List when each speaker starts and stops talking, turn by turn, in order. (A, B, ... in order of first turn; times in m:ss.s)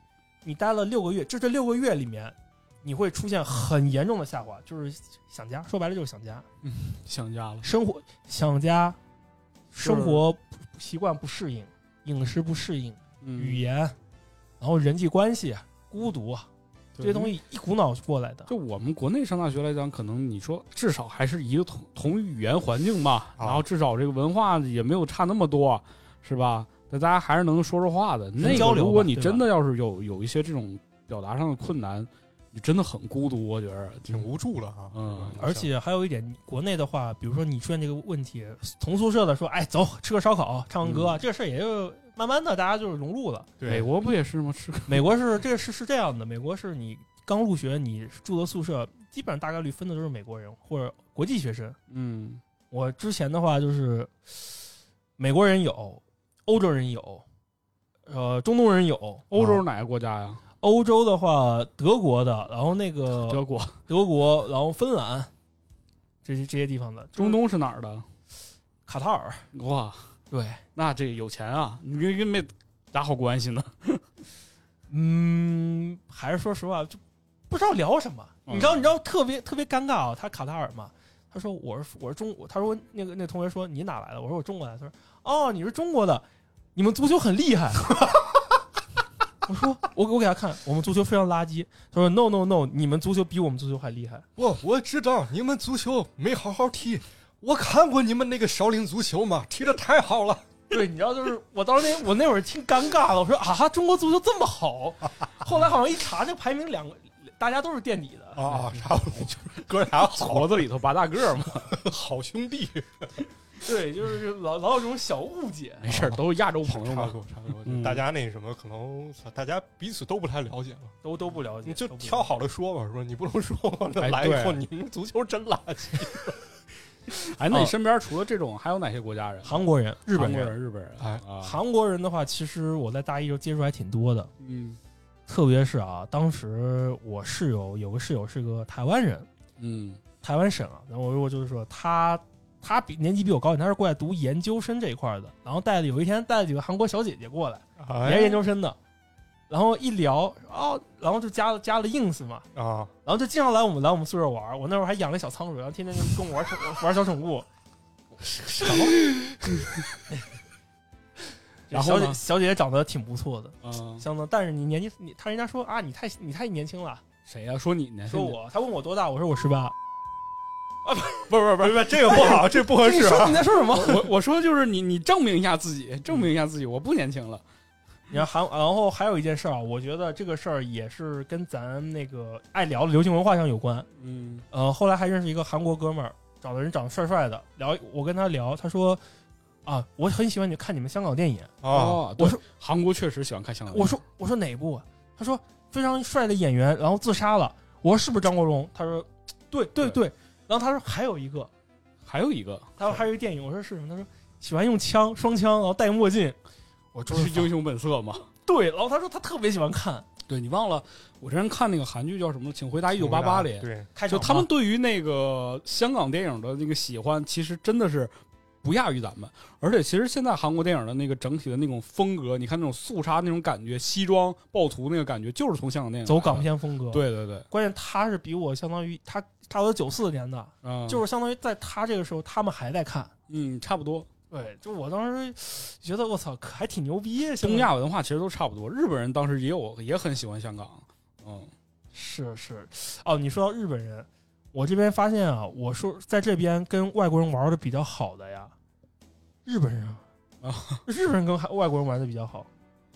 0:00.4-0:06.4 A
0:06.6-0:07.7 B
0:07.6-0:09.0 A
0:09.7-0:14.0 A
0:09.8-0:10.2 B
0:13.2-0:13.6 B
0:14.6-0:16.5 A
0:17.0-0:17.3 B
0:17.0-0:18.5 A
0:18.5-0:34.3 B
0:23.4-0:23.6 C
0:28.4-0:29.4 A
0:34.1-0:35.7 C
0:34.9-0:35.4 B
0:35.4-0:43.5 A
0:40.8-0:41.2 B
0:43.6-0:43.9 C
0:43.6-0:45.1 B
0:44.9-0:51.8 A
0:51.9-0:52.4 B
0:52.7-0:54.1 A
0:55.2-0:57.2 A
0:58.1-0:59.3 A
0:59.3-1:00.4 B
0:59.4-0:59.6 C
1:00.6-1:05.3 A
1:03.1-1:03.8 B
1:06.2-1:07.4 A
1:07.2-1:08.1 B
1:08.9-1:09.4 A
1:09.5-1:10.1 B
1:10.3-1:10.6 A
1:10.7-1:14.0 B
1:14.9-1:28.3 A
1:18.5-1:18.9 B
1:29.4-1:34.3 A
1:34.4-1:40.5 C
1:40.7-1:48.4 A
1:48.4-1:50.7 C
1:48.4-1:48.8 B
1:50.0-1:51.8 B
1:51.7-1:53.2 C
1:53.6-1:55.9 A
1:55.8-1:58.0 B
1:55.9-2:01.0 C
2:01.0-2:02.3 A
2:01.6-2:06.4 C
2:04.0-2:04.6 B
2:07.1-2:09.6 B
2:07.5-2:07.7 A
2:09.4-2:10.5 A
2:10.1-2:11.6 B
2:11.4-2:14.3 A
2:14.4-2:14.8 B
2:15.3-2:19.3 A
2:19.6-2:20.0 B
2:20.2-2:28.8 A
2:27.8-2:28.4 C
2:29.5-2:32.4 A
2:32.6-2:32.9 C
2:33.0-2:37.4 A
2:38.3-2:39.2 A
2:38.6-2:39.7 B
2:41.7-2:47.0 A
2:41.7-2:42.2 B
2:43.6-2:44.0 B
2:47.3-2:48.4 B
2:48.1-2:49.7 A
2:50.8-2:51.3 A
2:51.3-2:52.4 B
2:51.6-2:53.4 C
2:51.9-2:54.1 A
2:53.7-2:57.4 B
2:58.1-3:03.9 A
3:04.0-3:04.4 B
3:04.5-3:09.0 A
3:09.7-3:11.6 A
3:11.6-3:12.1 C
3:11.7-3:14.0 B
3:13.7-3:21.5 A
3:22.0-3:22.8 B
3:22.8-3:26.4 A
3:26.9-3:27.5 A
3:27.1-3:28.3 B
3:28.4-3:30.1 A
3:30.3-3:47.5 B
3:32.9-3:33.9 C
3:34.0-3:34.5 A
3:46.0-3:53.1 A
3:50.6-3:51.0 B
3:53.3-3:54.1 B
3:54.3-3:57.7 A
3:57.4-4:01.5 B
4:01.9-4:08.5 A
4:09.4-4:10.0 A
4:10.4-4:10.8 B
4:10.9-4:12.5 A